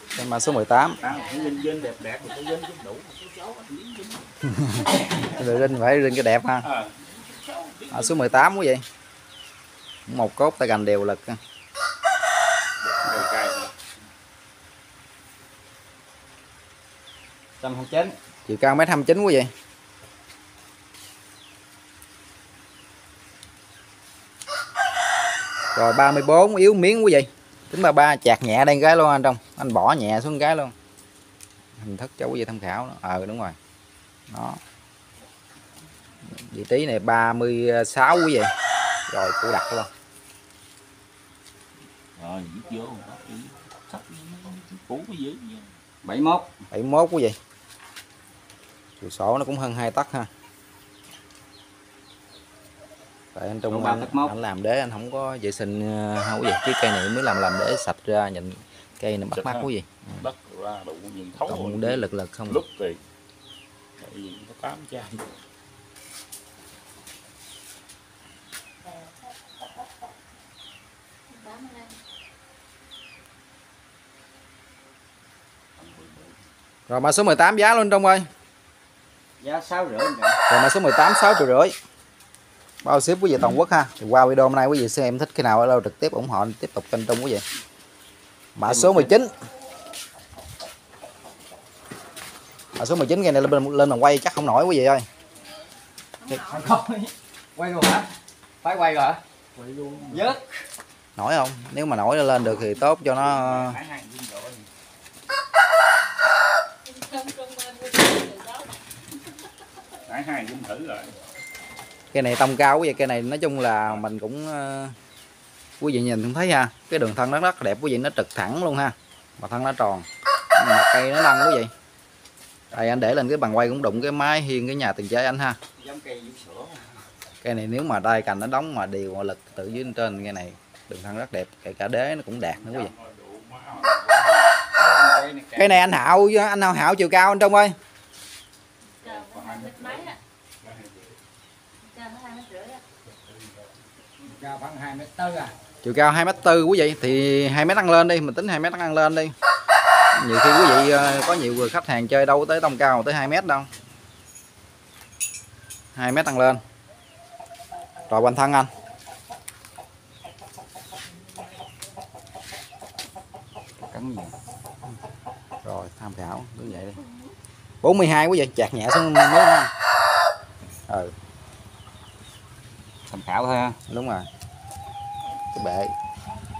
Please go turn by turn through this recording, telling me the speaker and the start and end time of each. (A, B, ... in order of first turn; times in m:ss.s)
0:00.1-0:01.1 A
0:01.0-0:04.3 B
0:04.4-0:06.7 A
0:06.6-0:08.5 B
0:07.9-0:08.8 A
0:10.1-0:11.4 A
0:12.8-0:13.7 B
0:17.6-0:18.2 C
0:18.5-0:19.5 A
0:25.7-0:30.7 A
0:31.8-0:33.6 A
0:34.3-0:34.6 A
0:36.3-0:38.5 A
0:39.1-0:39.9 A
0:42.2-0:45.8 B
0:46.0-0:46.5 C
0:46.7-0:47.4 A
0:49.0-0:50.3 A
0:53.3-1:00.2 A
0:53.7-0:54.3 C
0:59.4-1:03.0 B
1:01.4-1:02.6 A
1:04.0-1:05.3 B
1:11.3-1:11.9 D
1:15.8-1:16.3 B
1:16.9-1:18.3 A
1:19.4-1:20.4 C
1:20.5-1:21.7 A
1:22.8-1:27.4 A
1:28.6-1:29.3 A
1:28.6-1:29.1 C
1:32.8-1:35.0 A
1:36.2-1:38.1 C
1:38.6-1:39.2 C
1:39.6-1:40.3 B
1:40.1-1:40.5 C
1:41.2-1:43.8 A
1:43.2-1:44.6 B
1:46.9-1:48.7 D
1:50.0-1:51.1 B
1:52.1-1:55.0 A
1:55.8-2:01.7 A
2:02.7-2:05.6 A
2:05.8-2:07.0 C
2:07.4-2:12.9 A
2:12.7-2:14.4 B
2:14.7-2:15.8 C
2:15.6-2:17.8 A
2:19.0-2:20.2 D
2:19.0-2:20.9 B
2:21.8-2:22.8 D
2:24.2-2:25.5 C
2:25.8-2:29.3 A
2:30.1-2:33.7 A
2:36.0-2:36.6 A
2:38.1-2:38.7 A
2:43.9-2:44.3 C
2:45.6-2:47.0 A
2:47.8-2:49.7 A
2:50.9-2:51.1 A
2:53.1-2:53.8 C
2:53.9-2:54.3 A
2:55.5-2:55.9 A